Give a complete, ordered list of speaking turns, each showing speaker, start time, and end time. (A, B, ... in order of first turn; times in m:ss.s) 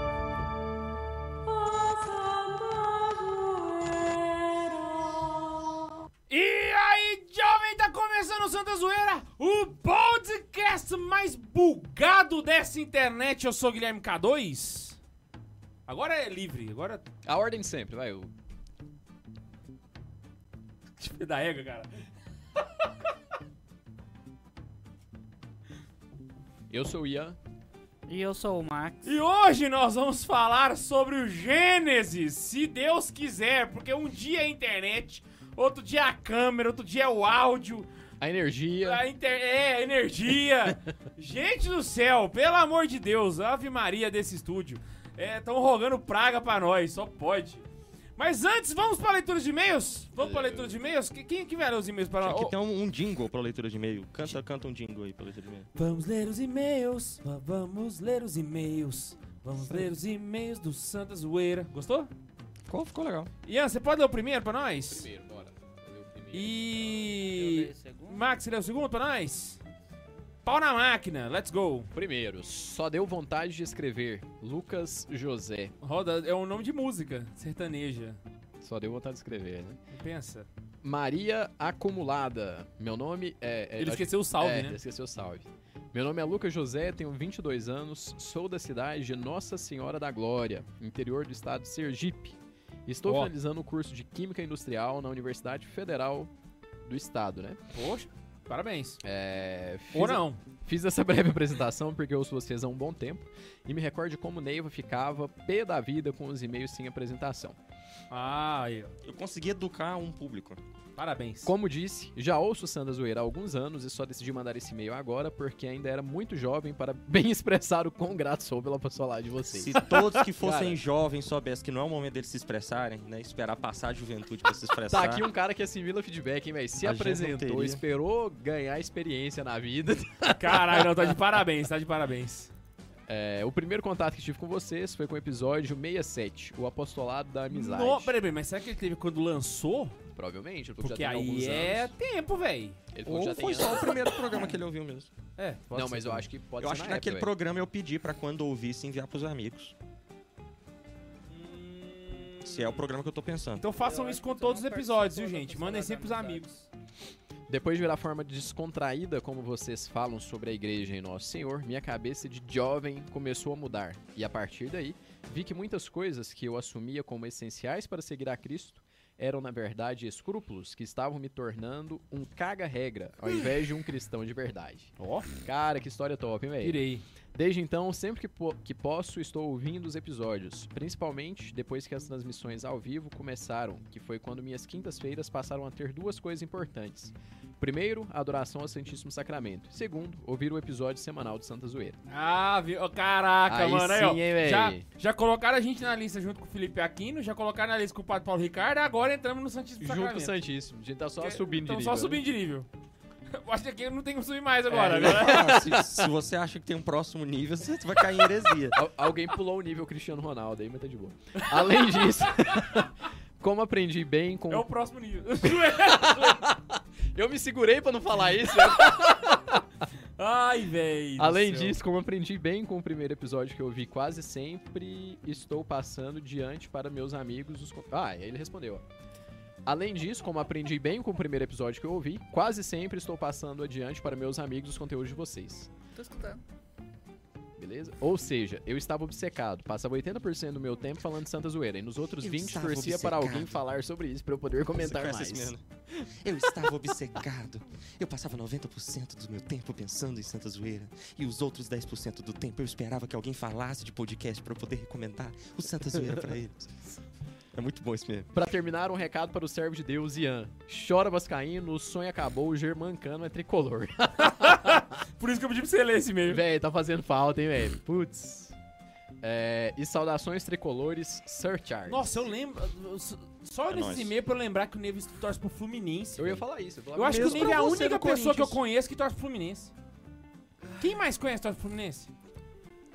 0:02.1-0:03.2 A
0:06.3-0:15.0 B
0:15.9-0:17.0 B
0:17.2-0:18.3 C
0:21.0-0:22.0 B
0:22.6-0:22.9 B
0:26.7-0:27.4 C
0:28.1-0:29.1 A
0:29.0-0:37.9 B
0:38.2-0:39.0 C
0:38.8-0:47.7 B
0:48.2-0:52.6 B
0:50.2-0:50.8 C
0:52.2-0:55.7 D
0:55.8-1:02.1 B
1:02.7-1:03.3 D
1:03.4-1:05.1 B
1:04.9-1:07.2 C
1:06.3-1:09.6 B
1:07.2-1:08.2 A
1:10.4-1:11.9 B
1:11.9-1:15.7 C
1:15.8-1:18.2 B
1:18.6-1:19.8 C
1:19.9-1:20.5 B
1:20.8-1:36.3 C
1:23.8-1:24.8 B
1:33.0-1:33.3 B
1:36.8-1:37.6 C
1:37.7-1:39.0 B
1:39.0-1:47.6 C
1:39.9-1:40.4 B
1:48.1-1:48.9 B
1:49.0-1:50.6 D
1:51.0-1:51.5 B
1:51.4-2:00.8 C
1:59.5-2:05.2 D
2:04.9-2:11.2 C
2:06.8-2:07.8 D
2:10.4-2:12.5 B
2:13.1-2:18.1 C
2:17.5-2:20.0 B
2:20.2-2:21.9 C
2:20.8-2:22.8 B
2:22.9-2:24.0 C
2:23.0-2:25.1 D
2:25.4-2:26.2 B
2:25.7-2:27.3 C
2:26.6-2:29.8 D
2:31.3-2:32.8 B
2:32.4-2:33.7 D
2:33.6-2:36.5 B
2:33.8-2:36.6 A
2:37.5-3:12.0 C
2:55.0-2:55.3 B
2:56.6-2:57.0 B
3:12.1-3:20.4 B
3:13.5-3:14.8 C
3:19.8-3:22.2 C
3:21.2-3:22.7 B
3:23.3-3:25.5 B
3:24.7-3:26.1 C
3:25.0-3:28.8 D
3:28.7-3:34.7 C
3:31.4-3:31.9 B
3:34.5-3:36.5 B
3:35.4-3:39.9 C
3:40.2-3:41.8 B
3:41.2-3:48.8 C
3:49.7-3:55.7 C
3:55.9-3:56.4 A
3:57.6-4:05.5 C
4:02.2-4:03.6 D
4:04.8-4:16.7 D
4:17.5-4:18.3 D
4:18.3-4:24.8 C
4:24.2-4:26.4 B
4:26.2-4:28.6 C
4:29.2-4:32.3 C
4:31.9-4:39.7 B
4:33.7-4:34.1 D
4:36.2-4:37.6 C
4:37.0-4:38.6 D
4:40.8-4:42.1 B